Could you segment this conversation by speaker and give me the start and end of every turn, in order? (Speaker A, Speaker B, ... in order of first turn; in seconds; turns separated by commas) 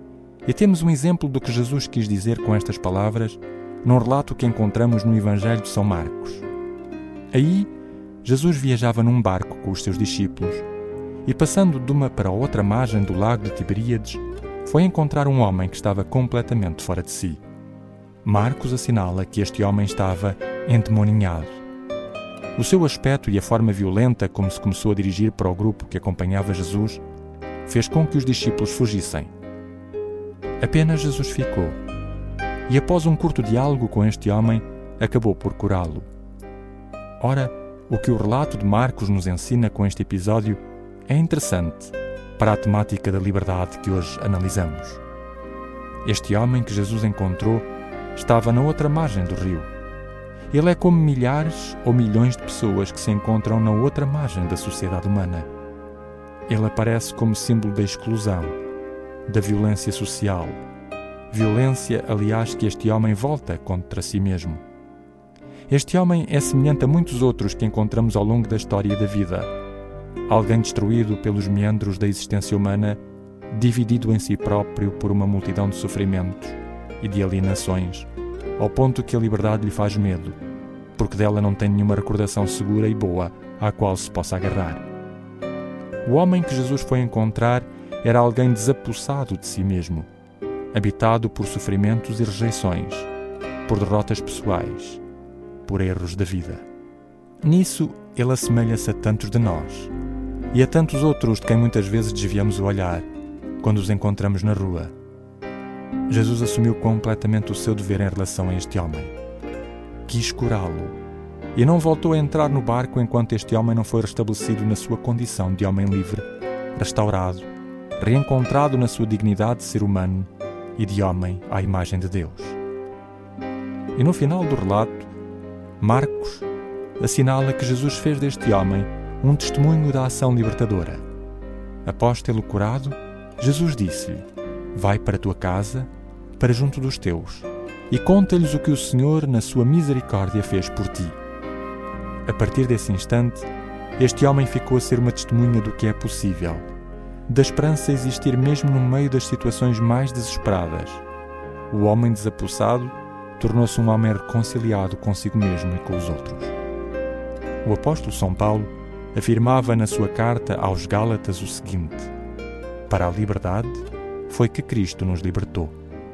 Speaker A: 0.4-6.4, Speaker A: 7.3-7.7, Speaker A: 8.2-10.7, Speaker A: 11.2-17.4, Speaker A: 18.2-21.6, Speaker A: 22.6-27.0, Speaker A: 27.6-29.3, Speaker A: 30.6-31.8, Speaker A: 32.7-36.1, Speaker A: 37.2-45.0, Speaker A: 46.0-49.7, Speaker A: 50.5-55.5, Speaker A: 56.5-58.6, Speaker A: 59.3-60.6, Speaker A: 61.3-64.6, Speaker A: 65.7-69.5, Speaker A: 70.3-80.4, Speaker A: 81.0-84.9, Speaker A: 86.0-90.1, Speaker A: 90.7-93.1, Speaker A: 93.7-95.0, Speaker A: 95.6-96.6, Speaker A: 97.4-99.9, Speaker A: 100.5-103.1, Speaker A: 103.6-104.9, Speaker A: 106.1-109.1, Speaker A: 110.0-111.0, Speaker A: 111.5-122.6, Speaker A: 123.9-125.1, Speaker A: 125.8-126.5, Speaker A: 127.0-131.0, Speaker A: 131.8-141.2, Speaker A: 142.2-146.7, Speaker A: 147.3-151.0, Speaker A: 151.7-156.5, Speaker A: 157.6-162.1, Speaker A: 162.9-165.8